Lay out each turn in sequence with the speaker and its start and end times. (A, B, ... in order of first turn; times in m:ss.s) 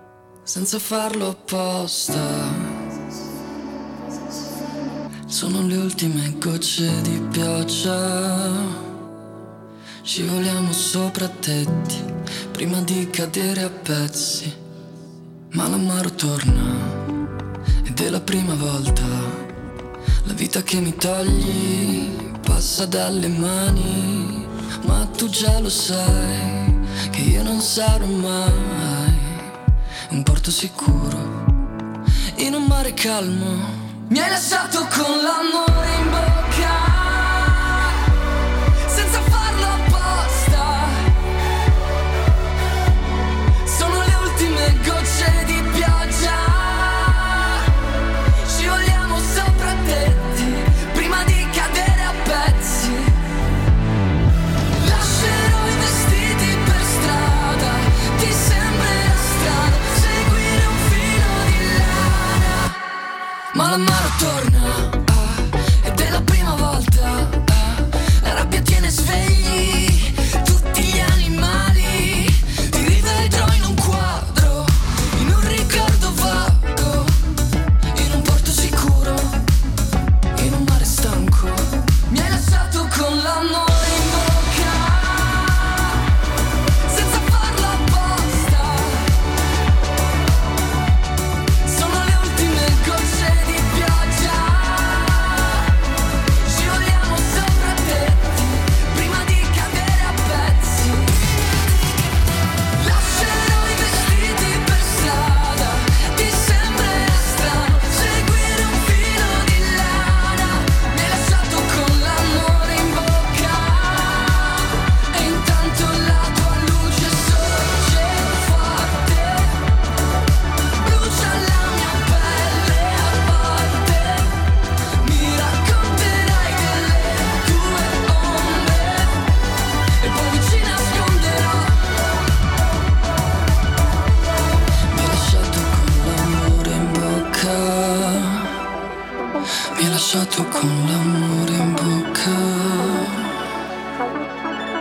0:00.5-0:02.8 A
0:05.3-0:08.8 A
0:10.0-0:14.6 A
0:15.5-0:17.2 A
0:17.8-0:19.5 A
0:20.2-0:29.5 A
0:30.1-0:31.5 A
0:32.4-0:38.1 A
0:38.8-0:41.1 A
0:43.6-0:47.7 A
0:48.4-0:53.2 A
0:54.8-1:02.8 A
1:03.5-1:17.2 A
1:17.9-1:19.4 A
1:20.3-1:26.1 A
1:26.8-1:29.2 A
1:31.6-1:35.8 A
1:36.4-1:41.4 A
1:42.8-1:59.6 A
2:00.8-2:04.4 A
2:05.0-2:09.3 A
2:10.0-2:12.1 A
2:14.9-2:18.6 A
2:19.8-2:23.4 A